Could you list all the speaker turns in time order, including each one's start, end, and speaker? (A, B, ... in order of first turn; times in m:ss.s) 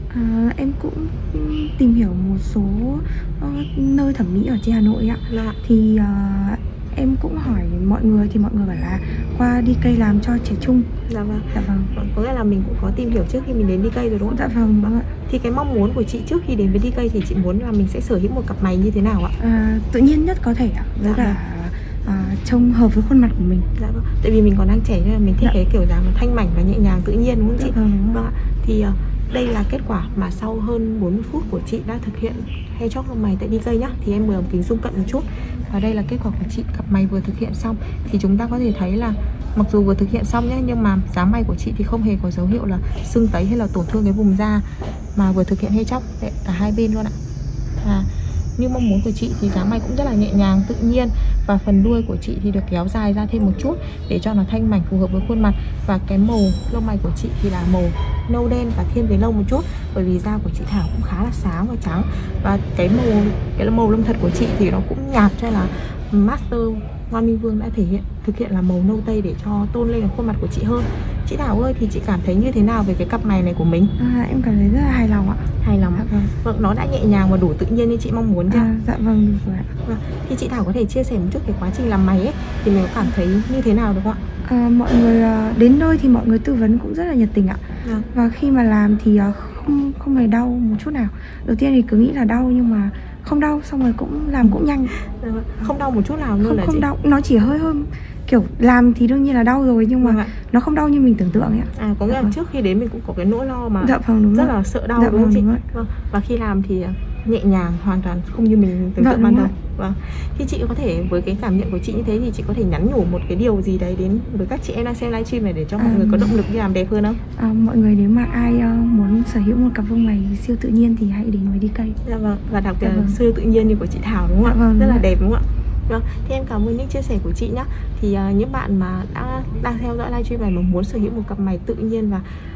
0:00.1-0:10.9 A
0:05.3-0:05.6 B
0:11.1-0:19.4 B
0:11.5-0:11.9 A
0:14.3-0:15.1 A
0:19.4-0:23.7 A
0:21.0-0:21.4 B
0:23.8-0:44.6 B
0:27.6-0:28.2 A
0:45.2-0:47.2 B
0:47.8-1:13.9 B
1:14.0-1:16.3 A
1:15.6-1:18.7 B
1:18.5-1:19.7 A
1:19.8-1:24.2 B
1:24.4-1:27.6 A
1:27.8-1:28.1 B
1:28.1-1:34.9 A
1:35.0-1:36.9 B
1:36.4-1:42.4 A
1:40.0-1:40.3 B
1:41.7-1:57.2 B
1:43.8-1:45.6 A
1:49.0-1:49.5 A
1:55.8-1:56.4 A
1:57.4-2:02.0 A
2:02.0-2:12.2 B
2:02.8-2:03.2 A
2:04.4-2:05.1 A